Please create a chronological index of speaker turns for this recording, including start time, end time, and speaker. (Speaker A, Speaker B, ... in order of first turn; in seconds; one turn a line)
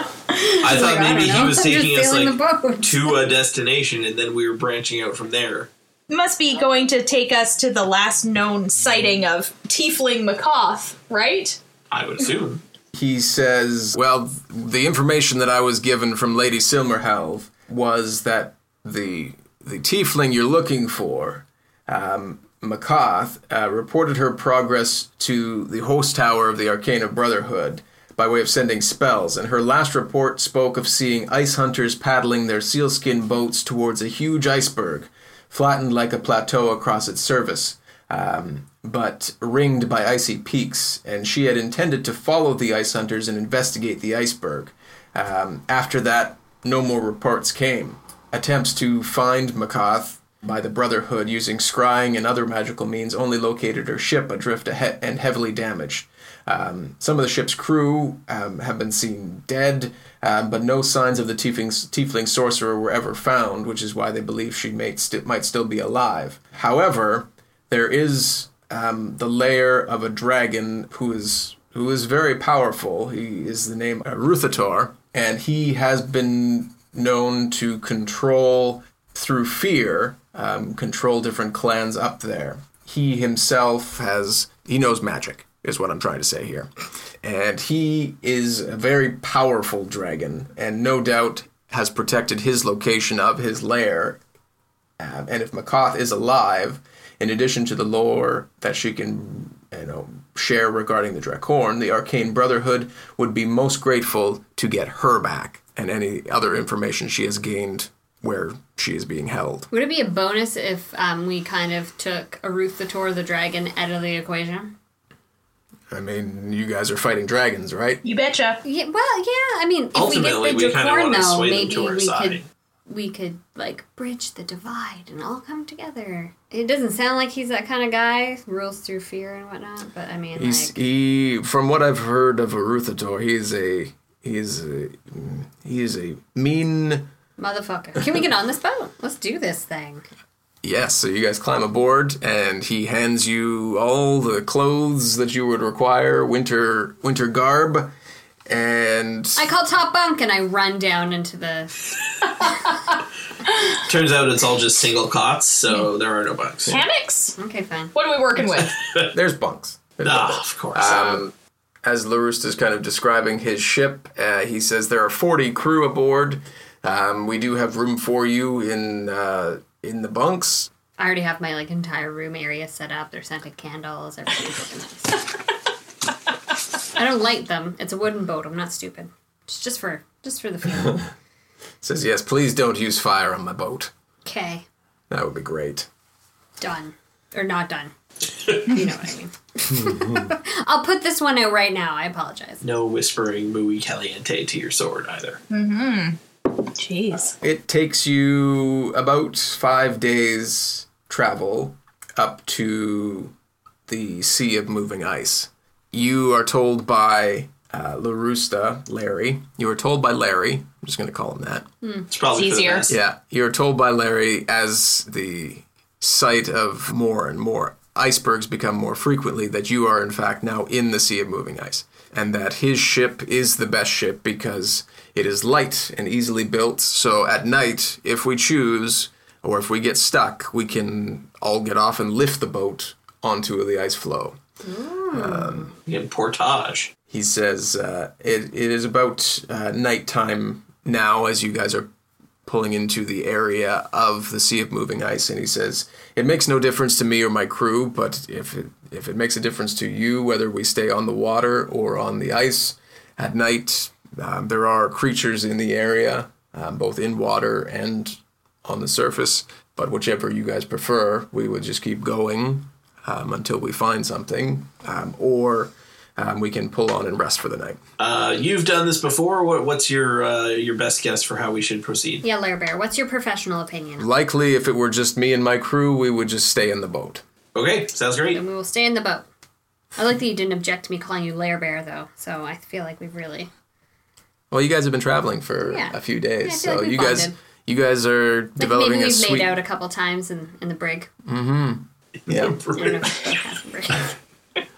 Speaker A: 0.3-3.2
Speaker B: 0.6-5.7
Speaker C: 6.1-11.6
Speaker B: 11.9-12.6
Speaker D: 12.9-86.7
Speaker D: 87.2-94.2
Speaker D: 95.0-109.7
Speaker A: 109.7-114.7
Speaker D: 115.9-118.0
Speaker C: 118.0-118.6
Speaker A: 118.6-130.8
Speaker B: 119.9-122.4
Speaker D: 130.3-137.1
Speaker A: 137.4-140.1
Speaker D: 140.6-147.9
Speaker D: 148.5-149.4
Speaker A: 149.4-151.8
Speaker B: 153.8-156.8
Speaker C: 156.7-157.4
Speaker A: 157.4-157.9
Speaker C: 157.9-158.8
Speaker B: 158.8-159.1
Speaker D: 159.1-170.7
Speaker B: 160.0-161.2
Speaker A: 171.0-175.2
Speaker A: 176.9-181.1
Speaker D: 181.8-183.9
Speaker A: 184.2-184.6
Speaker D: 185.1-185.9
Speaker A: 186.6-187.9
Speaker A: 188.6-192.6
Speaker B: 192.6-195.4
Speaker C: 195.5-197.4
Speaker D: 197.4-203.3
Speaker D: 203.9-211.7
Speaker A: 211.8-212.1
Speaker B: 212.1-212.9
Speaker C: 212.3-212.9
Speaker D: 212.9-234.4
Speaker A: 234.6-235.7
Speaker D: 235.1-235.7
Speaker B: 235.9-236.9
Speaker D: 237.1-241.9
Speaker D: 242.4-267.8
Speaker B: 268.0-272.2
Speaker A: 272.2-274.1
Speaker D: 274.0-277.2
Speaker B: 277.6-278.4
Speaker A: 278.3-279.3
Speaker A: 279.9-283.5
Speaker D: 284.5-289.6
Speaker A: 285.6-287.3
Speaker A: 288.6-291.1
Speaker D: 291.2-292.6
Speaker B: 292.2-293.2
Speaker A: 292.7-294.1